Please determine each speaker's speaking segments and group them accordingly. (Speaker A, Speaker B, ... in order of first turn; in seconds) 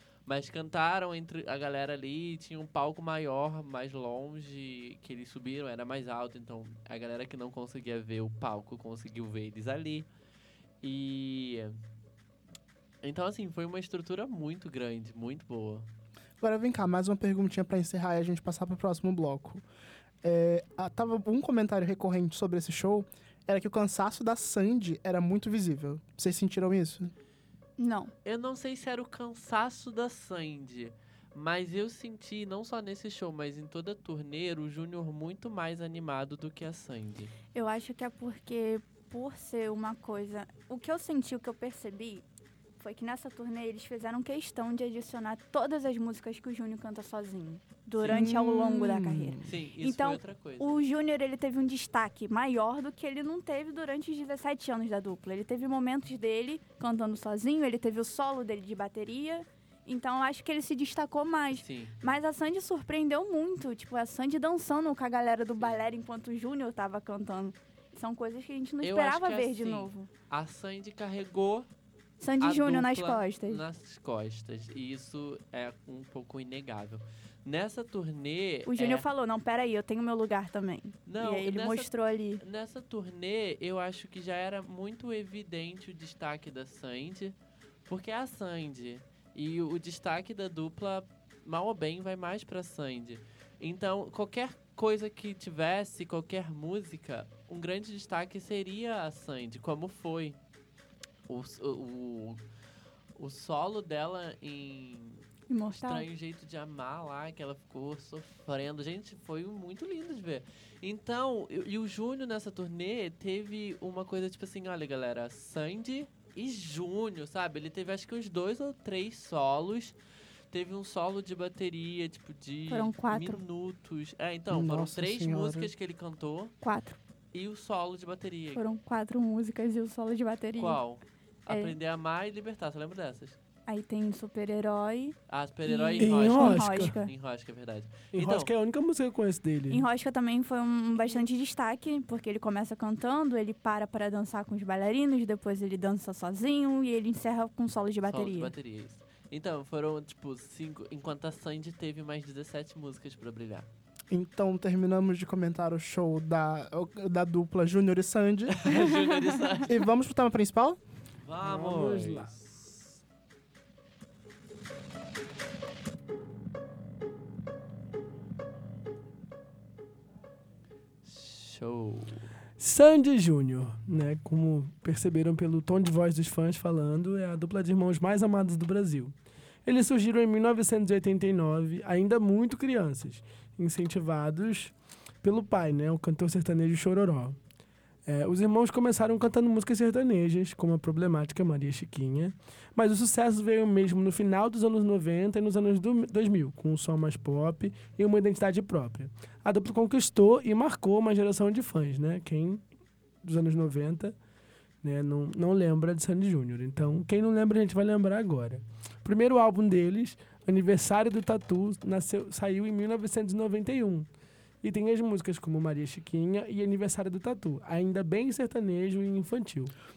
Speaker A: 0.2-10.1, 10.8-11.8, 13.0-15.9, 28.2-37.3, 48.0-48.3, 49.4-50.8, 61.5-61.9, 68.8-71.7, 72.4-79.0, 81.0-87.3, 87.8-100.4, 101.3-102.4, 103.2-105.3, 105.8-120.0, 120.5-126.5, 127.3-128.6, 130.6-133.4, 135.3-138.5, 148.0-153.7, 158.5-159.8, 161.2-162.8, 171.0-172.3
Speaker B: 16.4-19.6, 20.2-27.1, 48.0-49.4, 124.5-125.7, 154.1-158.6, 159.7-160.8
Speaker C: 27.8-28.1, 37.5-42.2, 42.8-70.1, 72.2-73.6, 78.7-82.4, 105.5-106.1, 122.7-123.4, 126.6-127.0, 128.5-130.8, 131.5-131.7, 133.7-137.1, 139.7-148.5, 158.7-159.6
Speaker D: 136.0-136.9, 138.1-139.8, 161.4-162.3, 172.6-179.1, 179.7-187.4, 188.1-202.6, 203.2-204.2, 204.8-214.1, 214.6-219.7